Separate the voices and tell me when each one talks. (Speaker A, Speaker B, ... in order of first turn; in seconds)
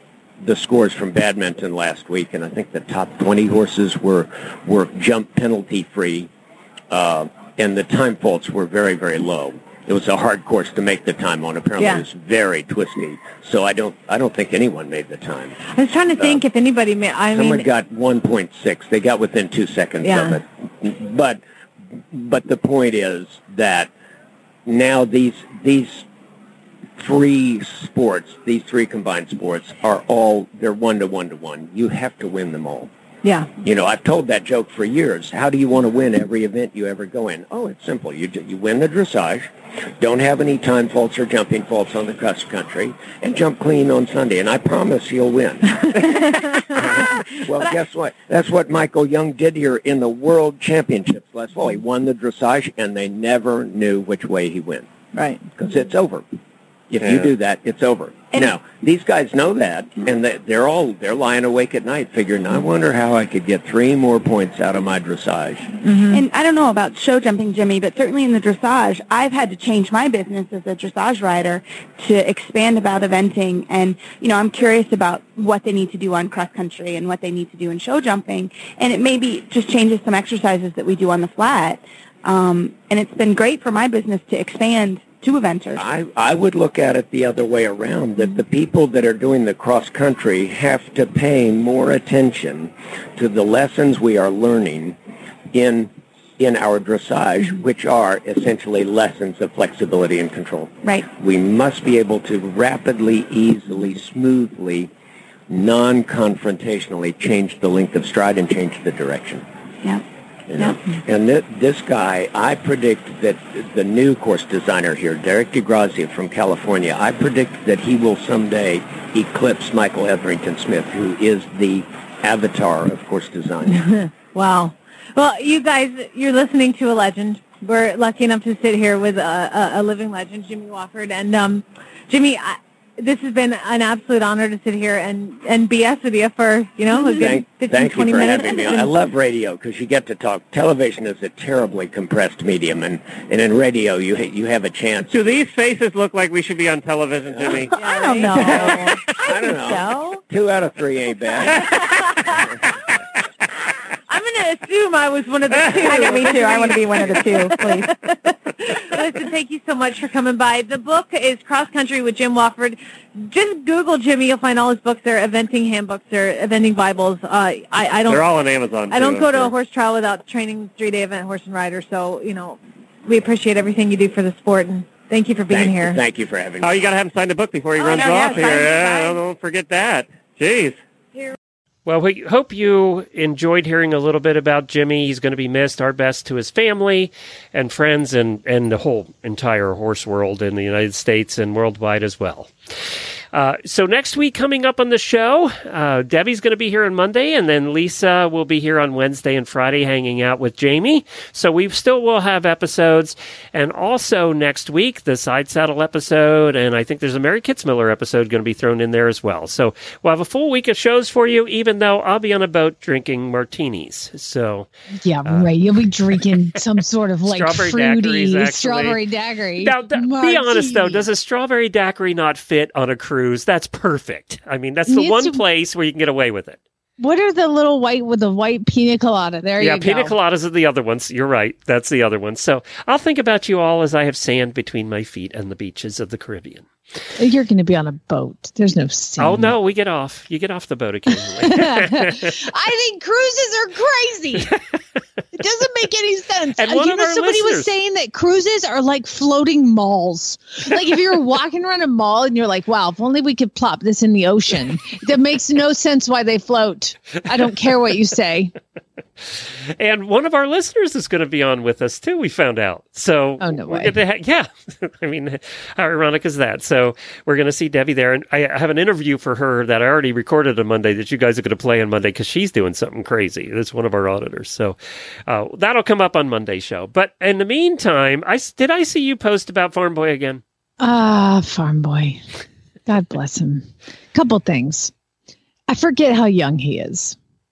Speaker A: 0.4-6.3, 6.9-15.6, 17.3-21.4, 22.1-23.9, 24.7-26.1, 27.0-32.9, 33.6-54.9, 55.6-56.2, 56.9-65.8, 85.8-95.0, 95.5-104.9, 105.5-109.5, 110.5-123.8, 137.1-145.1, 147.3-147.7, 148.3-151.8, 175.5-176.8
Speaker B: 11.8-12.0, 15.7-17.7, 20.0-20.4, 33.2-33.5, 55.1-55.4, 65.8-66.2, 123.7-138.9, 147.7-150.2, 151.7-152.5, 154.1-168.3, 168.9-176.0
Speaker C: 57.0-57.3, 145.1-147.7, 168.1-169.5, 176.6-180.8
Speaker D: 66.1-85.8, 147.8-149.9, 155.9-157.9, 177.8-179.2
Speaker E: 181.9-192.5, 193.3-214.7, 215.2-215.5, 217.2-219.0, 219.6-226.6, 229.6-236.7, 239.2-242.3, 246.6-247.7, 259.3-280.4
Speaker F: 215.0-221.1, 224.9-225.4, 227.0-230.2, 237.2-239.6, 241.4-244.5, 245.3-258.5, 263.4-264.0, 280.8-282.2, 282.9-284.9, 285.7-287.2